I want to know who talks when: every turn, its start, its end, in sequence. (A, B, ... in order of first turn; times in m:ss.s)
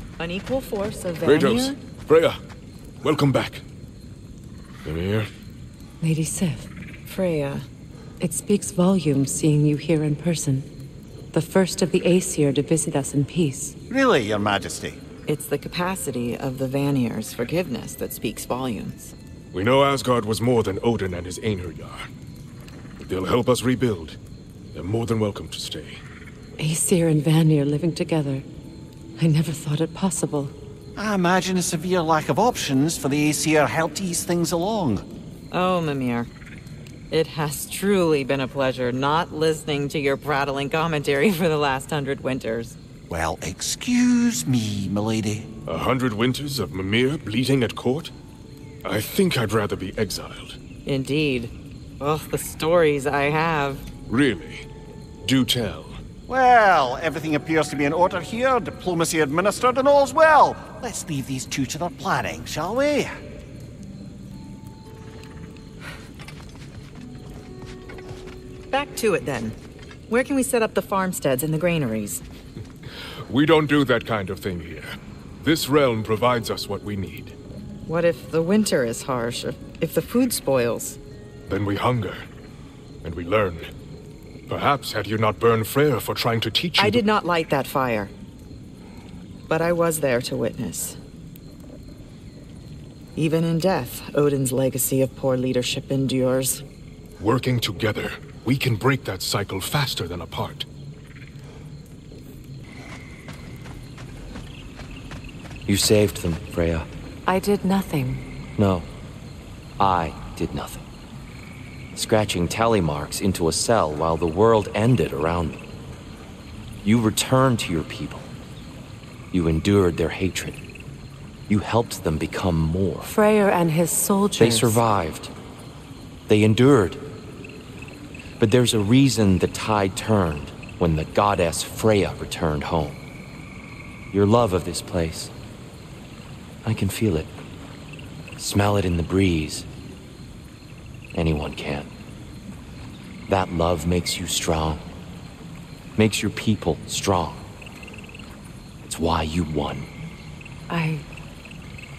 0:00.2-0:01.8 A
0:01.2-0:02.4 B
0:03.0-0:03.6 B
0:04.8-0:05.3 B
0:06.0-0:06.7 C
0:07.0-0:07.6 A
0:08.2-0:10.6 C
0:11.3-0:13.7 C
0:13.9-0:15.0 D
0:15.2-0:19.1 A
0:19.5-0:22.1 B
0:23.0-0:24.2 B
0:24.7-0:26.0 B
0:26.6-0:28.4 C
0:29.2-0:30.5 C
0:31.0-0:35.0 D
0:35.5-0:36.3 A
0:37.1-0:42.8 A
0:43.1-0:45.5 D
0:45.6-0:48.1 B
0:48.8-0:50.6 B
0:50.8-0:53.8 A
0:54.1-0:54.6 B
0:55.2-0:56.0 B
0:56.3-1:03.1 D
1:08.7-1:09.6 A
1:10.1-1:12.2 A
1:13.3-1:17.4 B
1:17.8-1:21.0 A
1:21.5-1:22.2 B
1:23.0-1:23.7 B
1:24.5-1:27.0 B
1:26.8-1:28.1 A
1:29.5-1:31.0 A
1:33.2-1:36.6 A
1:37.2-1:40.7 B
1:45.7-1:46.9 E
1:47.3-1:48.2 C
1:48.6-1:48.9 E
1:49.8-1:50.8 E
1:51.9-1:55.6 E
1:56.8-1:58.3 E
1:59.3-2:00.6 E
2:01.5-2:03.1 E
2:03.0-2:04.8 C
2:04.4-2:05.3 E
2:06.3-2:07.0 E
2:08.4-2:13.0 E
2:14.1-2:15.3 E
2:16.6-2:17.3 E
2:18.4-2:19.6 E
2:21.1-2:21.9 E
2:23.3-2:24.8 E
2:26.0-2:27.4 E
2:28.8-2:29.9 E
2:30.7-2:31.0 C